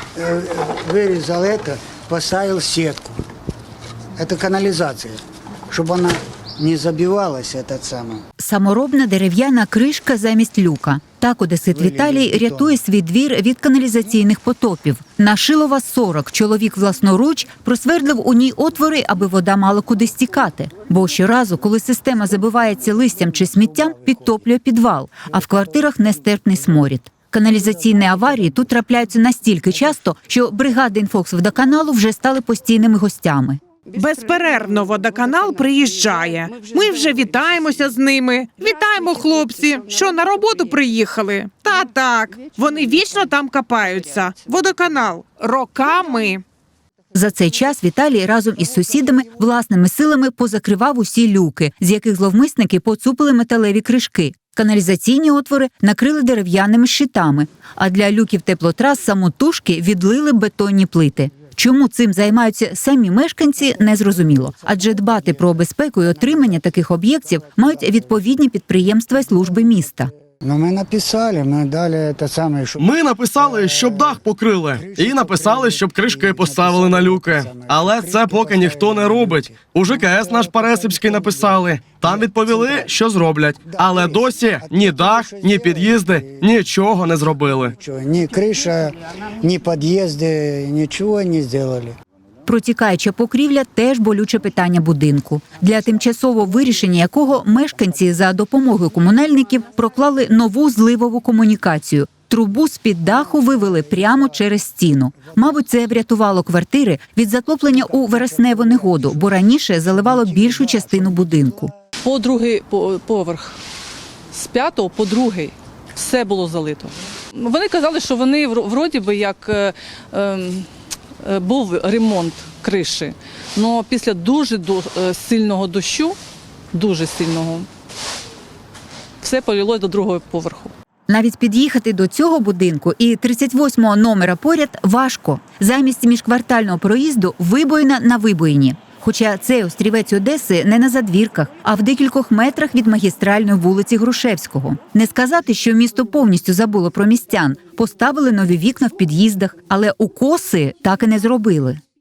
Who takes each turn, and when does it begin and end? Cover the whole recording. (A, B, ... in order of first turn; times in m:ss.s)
0:00.2-0:03.2 A
0:04.2-0:08.2 A
0:08.4-0:33.6 B
0:11.8-0:12.8 A
0:33.9-0:46.4 C
0:47.1-1:10.1 B
1:04.6-1:05.0 A
1:10.4-1:12.9 A
1:12.8-1:27.7 D
1:13.4-1:14.2 A
1:14.8-1:22.9 A
1:23.6-1:26.4 A
1:27.6-1:31.9 A
1:32.4-1:51.7 B
1:47.8-1:51.2 A
1:52.0-1:53.6 E
1:54.3-2:00.7 E
2:01.2-2:06.2 E
2:06.7-2:07.7 E
2:09.2-2:10.7 E
2:11.1-2:31.8 B